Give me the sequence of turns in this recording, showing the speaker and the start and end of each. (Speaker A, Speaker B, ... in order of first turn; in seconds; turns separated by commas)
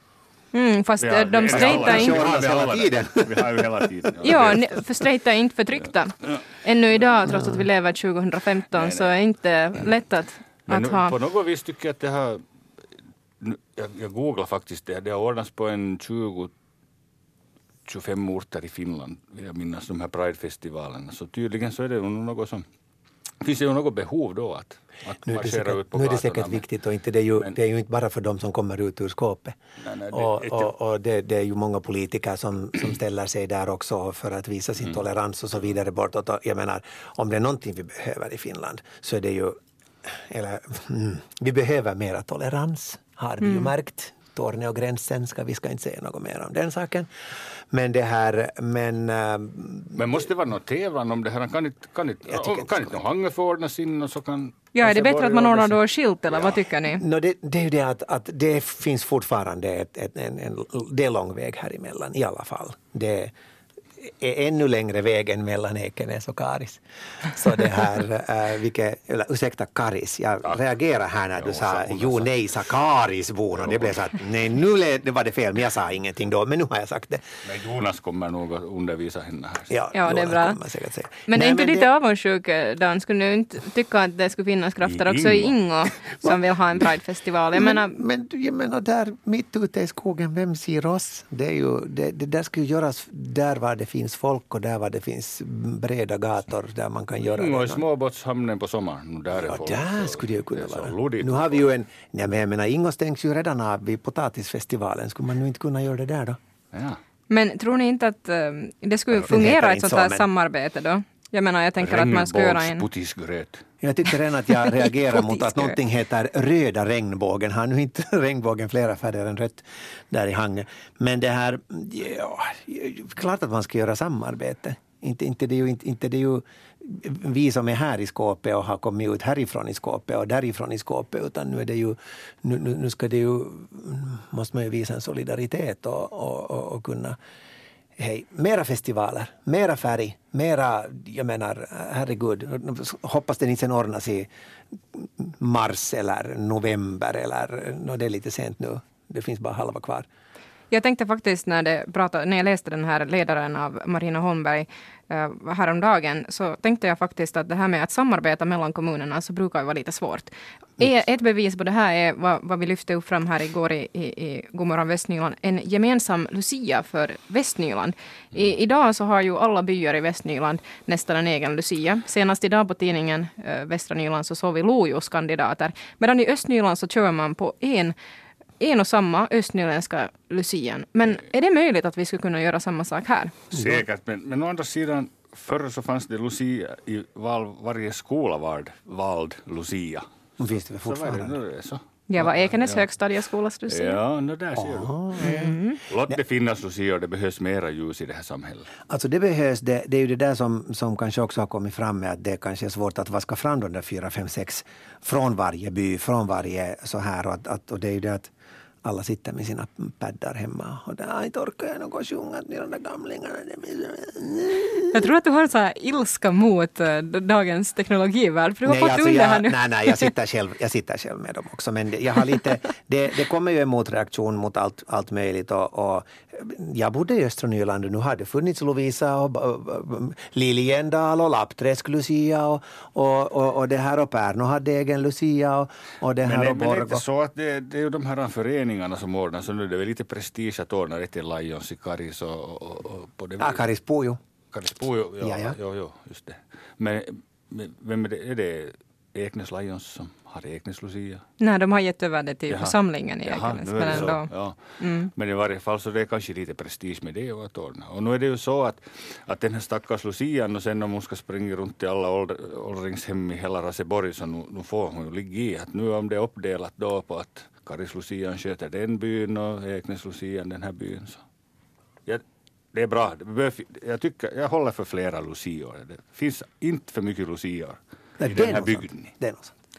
Speaker A: 0.5-2.3, Speaker B: 1.0-4.8, Speaker C: 1.5-3.6, Speaker A: 4.2-11.1, Speaker C: 7.3-7.5, Speaker B: 8.7-9.1, Speaker B: 10.7-12.4, Speaker B: 13.4-16.5, Speaker B: 17.9-22.6, Speaker B: 23.4-26.6, Speaker C: 25.2-29.6, Speaker B: 29.8-30.7, Speaker C: 30.1-39.6, Speaker C: 40.1-47.1, Speaker A: 43.4-43.7, Speaker C: 47.7-50.0, Speaker B: 49.9-55.8, Speaker C: 52.3-53.0, Speaker A: 54.7-57.0, Speaker C: 56.9-63.3, Speaker C: 64.0-77.2, Speaker B: 71.4-72.3, Speaker B: 73.5-74.0, Speaker B: 77.4-79.7, Speaker C: 79.7-81.9, Speaker A: 79.9-80.6, Speaker A: 81.3-88.0, Speaker B: 84.8-85.5, Speaker C: 87.5-97.8, Speaker B: 97.2-101.6, Speaker C: 99.3-106.4, Speaker B: 106.7-107.0, Speaker A: 107.3-112.8, Speaker C: 109.1-110.3, Speaker B: 111.8-113.6, Speaker C: 113.8-137.2, Speaker A: 114.6-115.8, Speaker C: 138.0-144.3, Speaker C: 144.9-150.1, Speaker A: 150.7-177.9, Speaker A: 178.6-183.4, Speaker B: 183.5-190.0, Speaker C: 183.5-183.8, Speaker C: 190.4-191.4, Speaker B: 190.8-192.8, Speaker A: 192.1-194.0, Speaker B: 193.7-195.3, Speaker C: 194.6-195.6, Speaker A: 195.2-195.8, Speaker B: 195.9-198.7, Speaker C: 198.9-208.3, Speaker C: 208.8-215.1, Speaker A: 214.9-220.1, Speaker C: 218.6-237.0, Speaker B: 236.2-243.6, Speaker C: 243.4-244.2, Speaker B: 244.5-251.2, Speaker C: 245.2-245.6, Speaker A: 251.4-255.1, Speaker B: 252.5-254.6, Speaker B: 255.1-271.2, Speaker B: 272.7-279.1, Speaker C: 278.2-279.5